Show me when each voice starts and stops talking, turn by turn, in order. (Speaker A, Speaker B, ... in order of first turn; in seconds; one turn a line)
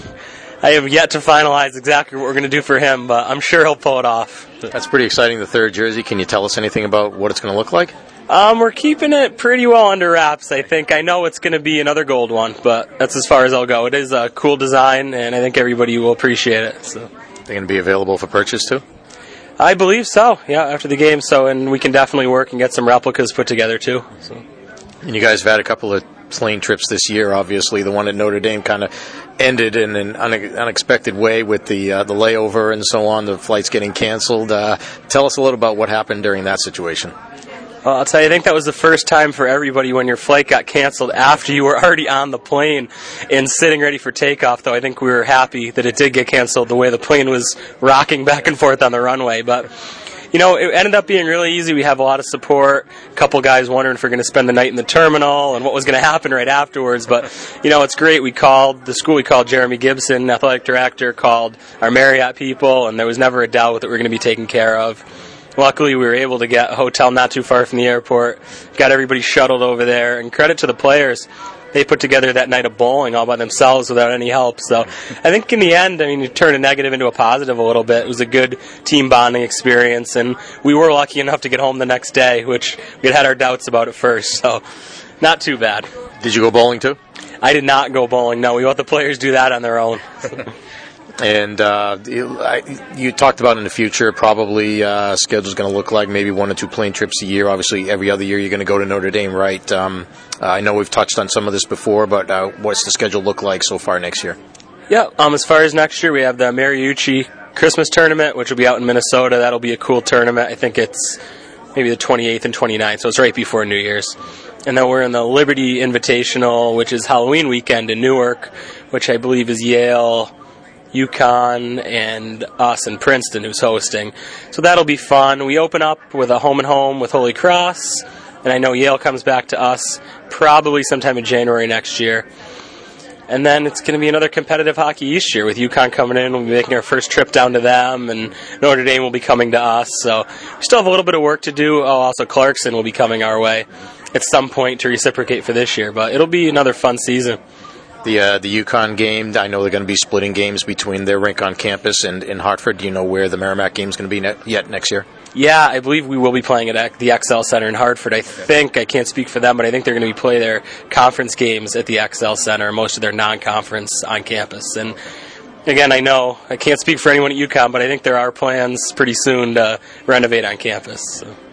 Speaker A: 0.6-4.5
Speaker B: 4.7-7.9
Speaker A: 8.3-17.1
Speaker B: 17.5-18.8
Speaker A: 19.6-24.4
Speaker B: 25.0-37.1
Speaker A: 37.8-49.7
Speaker A: 50.3-65.0
Speaker A: 65.5-84.6
Speaker A: 85.2-85.9
Speaker B: 86.2-87.0
Speaker A: 87.4-90.4
Speaker B: 91.2-104.4
Speaker A: 104.9-111.2
Speaker A: 111.7-120.3
Speaker A: 120.9-132.3
Speaker A: 133.3-147.4
Speaker B: 148.0-155.1
Speaker A: 155.3-165.0
Speaker A: 165.7-171.3